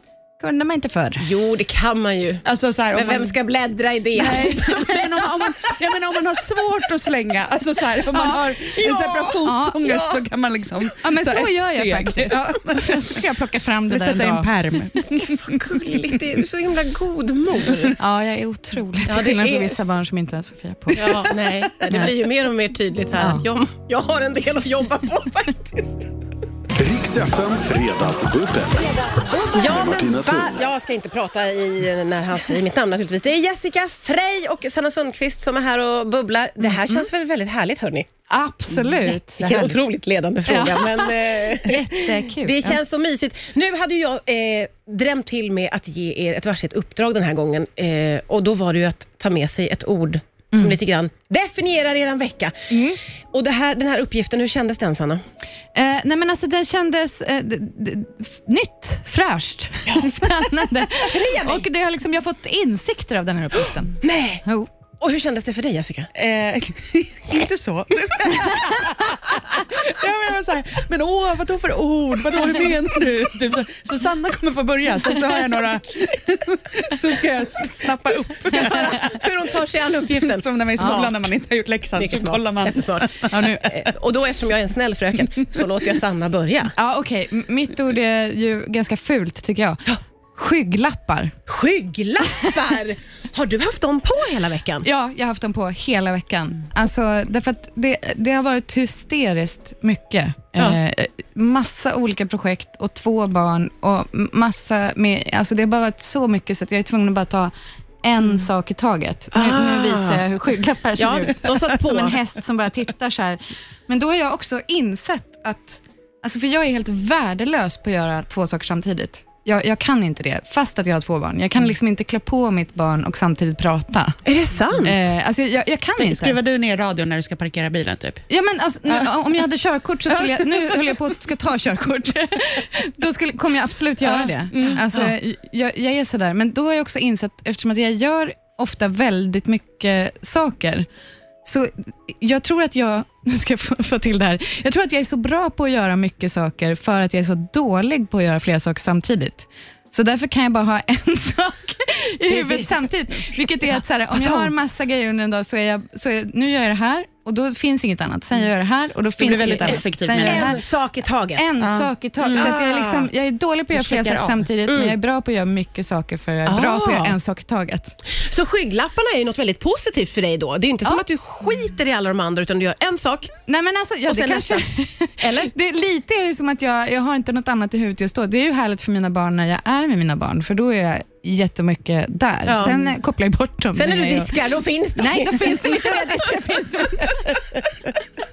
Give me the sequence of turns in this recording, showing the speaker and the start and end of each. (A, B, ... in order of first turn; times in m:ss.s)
0:00.4-0:01.3 A
0:01.2-0:04.8 B
0:02.4-0:03.3 C
0:04.2-0:05.3 A
0:04.4-0:13.2 C
0:08.1-0:08.5 A
0:08.7-0:09.4 B
0:09.4-0:10.2 A
0:11.0-0:14.5 A
0:13.9-0:16.2 C
0:15.1-0:18.0 B
0:18.0-0:21.2 A
0:19.1-0:19.8 B
0:20.9-0:26.1 B
0:21.0-0:21.2 C
0:23.2-0:23.4 A
0:26.7-0:30.6 D
0:29.5-0:38.1 B
0:36.6-0:37.1 A
0:38.3-0:39.4 A
0:38.8-0:39.8 C
0:39.4-0:52.7 B
0:40.5-0:42.8 A
0:52.7-0:53.0 A
0:53.3-0:55.2 B
0:55.7-1:04.7 A
0:59.8-1:00.3 B
1:00.9-1:01.6 B
1:04.0-1:04.4 B
1:05.0-1:06.1 B
1:06.1-1:19.3 C
1:18.4-1:21.2 B
1:20.0-1:23.4 C
1:22.0-1:26.7 B
1:23.3-1:23.7 A
1:26.8-1:29.8 A
1:30.3-1:31.3 A
1:31.5-1:34.8 B
1:34.8-2:04.2 A
1:49.3-1:50.3 B
1:51.0-1:52.2 B
2:04.2-2:05.0 B
2:04.8-2:06.4 A
2:05.9-2:08.2 C
2:08.3-2:20.8 A
2:10.1-2:11.1 C
2:14.0-2:14.8 C
2:14.6-2:15.1 B
2:21.4-2:40.6 A
2:32.3-2:32.7 B
2:34.1-2:34.5 B
2:39.2-2:40.6 C
2:39.3-2:41.4 B
2:41.4-2:48.0 A
2:41.6-2:42.6 C
2:42.3-2:43.1 B
2:43.7-2:44.4 C
2:44.6-2:45.0 B
2:46.4-2:47.2 B
2:48.1-2:53.3 B
2:53.5-3:07.4 A
2:54.1-2:54.6 B
2:55.2-2:55.5 B
3:02.4-3:02.9 B
3:03.7-3:06.5 B